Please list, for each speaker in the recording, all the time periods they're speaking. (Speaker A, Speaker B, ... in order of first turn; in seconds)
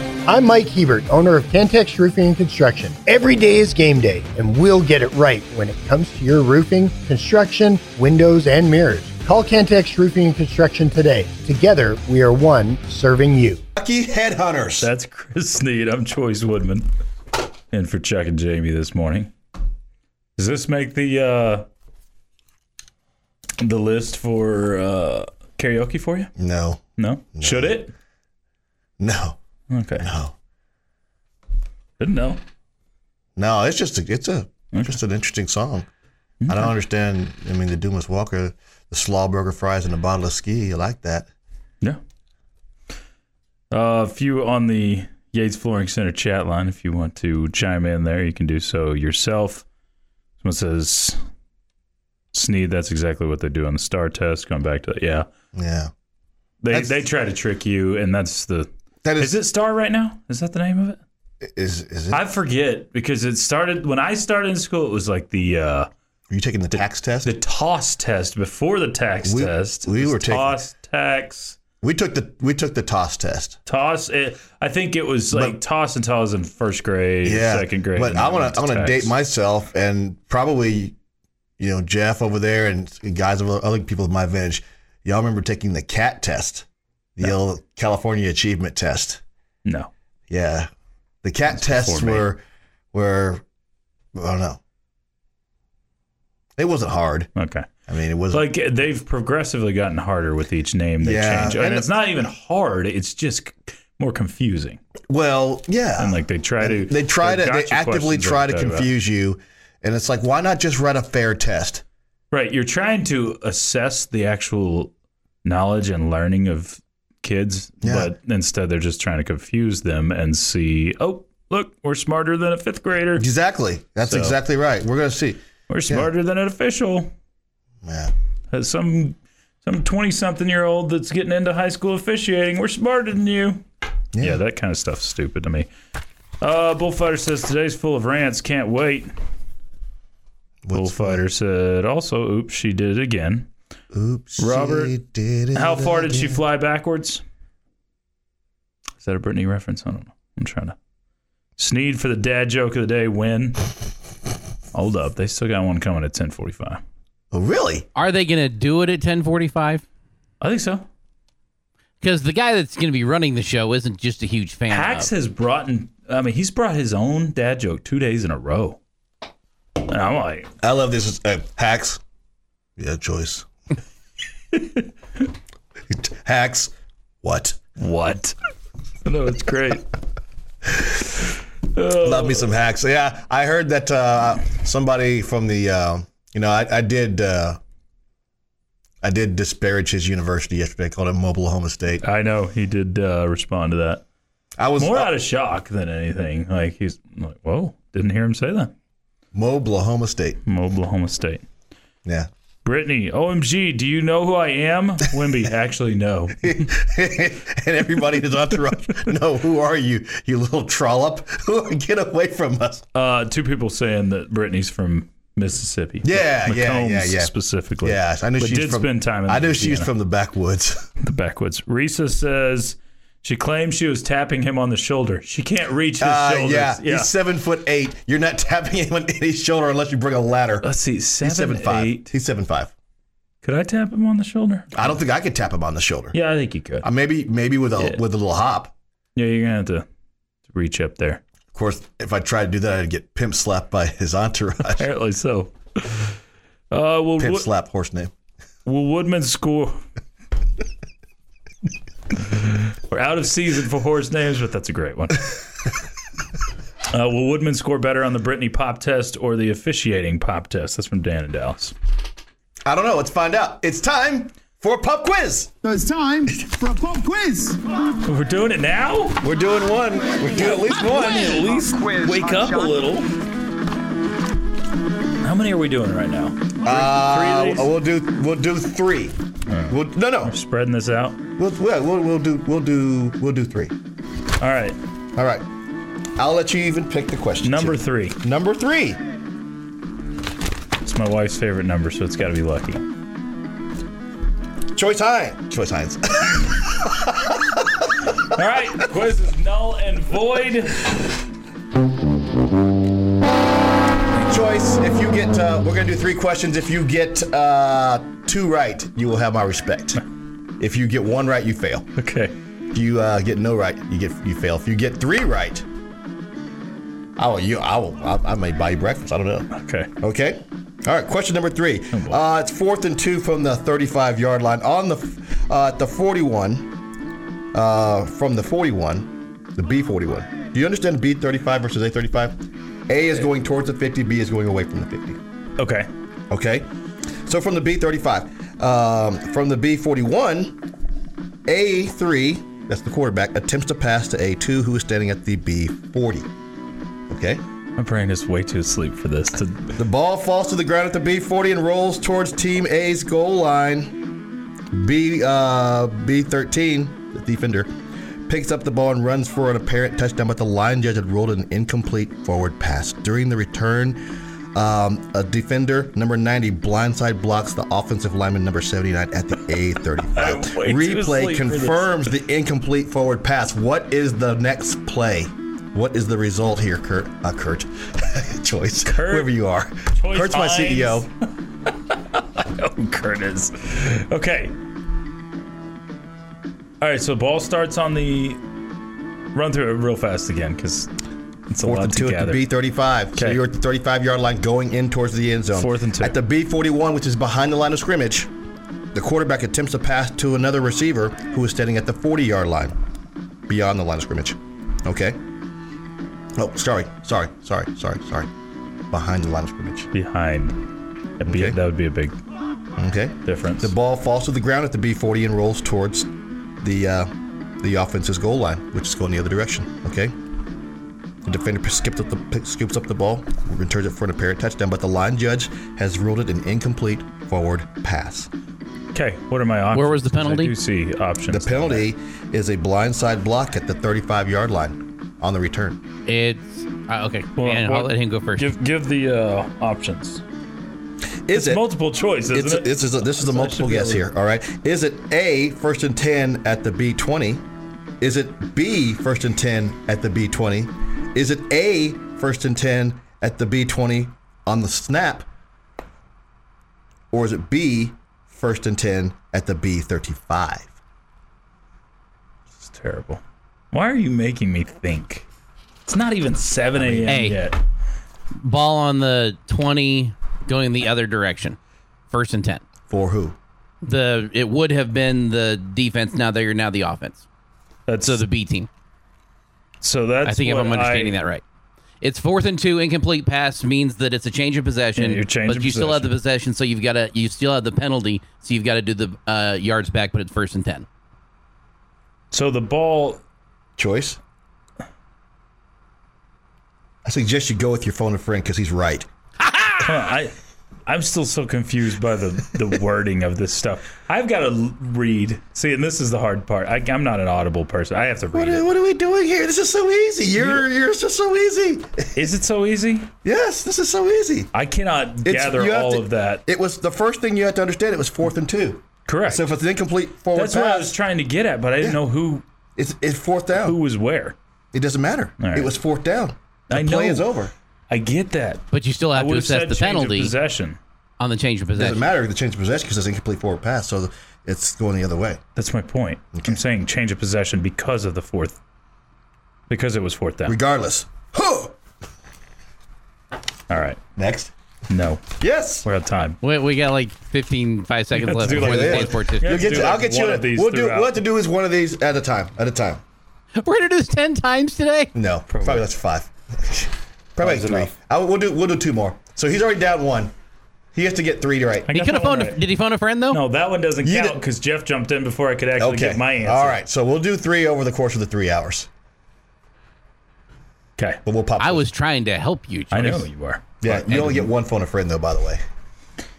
Speaker A: 0.3-13.6
Speaker B: 13.8-14.9, 26.4-26.8, 27.4-27.8, 29.0-29.4, 30.0-30.4, 33.4-35.9, 36.5-41.3, 55.5-55.9, 56.7-57.0, 59.0-59.4, 61.4-62.2, 66.3-67.3, 69.2-70.6, 71.8-73.6, 75.3-75.6, 77.2-81.0, 81.6-89.2, 90.3-90.7, 91.2-92.4, 92.9-93.4, 94.2-94.6, 96.6-97.3, 97.9-98.5, 101.0-101.9, 105.1-111.8, 117.8-118.1, 123.2-126.1, 127.8-128.1, 134.1-134.4, 140.6-141.2, 143.9-146.4, 157.3-157.9, 170.6-172.0, 172.8-173.5, 175.9-176.7, 177.2-177.6, 182.0-187.6, 189.0-192.0, 194.6-195.1, 199.3-200.4, 206.4-212.9, 216.0-220.9, 226.0-230.7, 231.2-232.7, 234.7-236.2, 236.8-238.7, 241.5-244.9, 247.2-248.1, 262.6-265.5, 269.2-271.7, 276.6-279.2, 279.7-280.4, 281.4-283.8, 285.2-285.5, 286.2-289.0, 294.7-297.9, 304.2-310.0, 310.6-311.9, 312.7-315.7, 317.2-326.7, 327.5-332.4, 332.9-335.2, 336.3-336.7, 337.2-340.6, 341.5-346.3, 347.1-347.4, 349.7-354.0, 354.7-357.7, 358.3-364.0, 364.6-381.1, 391.6-398.3, 398.9-402.7, 403.5-405.2, 406.4-408.3, 408.9-409.9, 411.3-411.6, 412.8-416.1, 416.6-420.1, 421.2-428.3, 431.3-435.8, 441.3-441.7, 442.3-447.4, 448.0-455.3, 457.1-460.8, 466.8-467.1, 472.9-473.4, 493.8-494.2, 497.1-499.1, 508.3-512.3, 513.2-514.5, 515.2-520.9, 522.8-523.8, 524.7-527.5, 531.8-535.4, 536.3-536.6, 540.5-541.8, 544.2-544.5, 545.4-545.9, 548.4-553.0, 555.1-560.3, 561.0-561.9, 564.0-564.4, 565.8-568.9, 571.2-571.9, 573.8-575.6
Speaker C: 14.8-16.9, 17.7-19.3, 20.4-21.7, 23.6-26.3, 27.0-27.9, 29.7-30.1, 32.0-32.4, 36.4-36.7, 43.7-49.7, 50.4-51.2, 52.3-55.3, 56.6-58.7, 59.2-61.0, 62.1-65.9, 66.7-71.6, 73.7-79.1, 89.7-89.9, 91.5-92.3, 97.4-97.7, 98.3-104.8, 106.0-108.9, 112.3-114.9, 115.4-123.2, 124.1-124.4, 125.7-127.1, 128.5-133.6, 134.2-135.7, 136.4-139.1, 140.7-143.5, 144.4-145.0, 145.5-147.2, 149.0-150.8, 151.6-153.6, 154.7-156.8, 160.4-160.9, 164.7-168.8, 169.8-170.5, 177.8-178.3, 179.1-179.8, 181.7-182.5, 192.0-194.0, 194.8-198.7, 200.5-201.4, 202.7-206.7, 212.9-219.9, 221.0-227.1, 230.6-232.1, 233.4-234.9, 236.1-236.9, 239.2-239.9, 240.5-241.2, 244.8-246.2, 246.7-247.5, 248.7-249.8, 252.3-255.3, 256.9-261.7, 268.0-269.2, 270.8-273.1, 275.2-277.7, 279.5-281.2, 284.4-284.8, 287.4-288.2, 290.8-292.8, 298.3-300.9, 312.0-312.4, 319.5-319.9, 321.9-322.2, 335.6-335.9, 347.8-349.7, 370.1-372.1, 378.8-379.3, 379.9-381.1, 381.9-384.6, 386.8-388.4, 389.3-390.9, 391.5-392.5, 393.2-393.4, 395.5-396.2, 409.9-410.6, 411.2-412.2, 413.2-413.7, 428.9-431.9, 437.4-440.2, 441.3-444.0, 462.6-465.3, 465.9-467.6, 477.9-478.2, 479.8-481.2, 485.0-486.1, 492.3-493.2, 499.8-500.3, 500.9-508.7, 510.4-510.6, 512.1-513.1, 514.5-516.4, 519.1-519.5, 520.3-522.5, 523.5-524.4, 525.4-525.7, 526.7-527.3, 527.9-530.8, 535.6-538.6, 539.7-540.6, 543.7-544.0, 544.9-545.3, 545.8-546.4, 548.1-551.2, 555.5-555.9, 557.4-557.9, 561.9-562.6, 563.3-566.8, 572.9-573.6
Speaker D: 158.0-159.8, 162.0-165.1, 429.7-430.5, 436.1-438.5, 467.1-467.4, 468.4-471.6, 472.1-472.6, 473.8-477.2, 478.0-478.7, 480.2-481.4, 482.0-490.9, 499.4-499.8, 528.7-530.3, 531.2-532.0, 546.4-549.9, 553.6-555.1, 561.9-563.4, 571.6-573.3, 573.9-574.5
Speaker E: 265.6-267.6, 270.4-272.8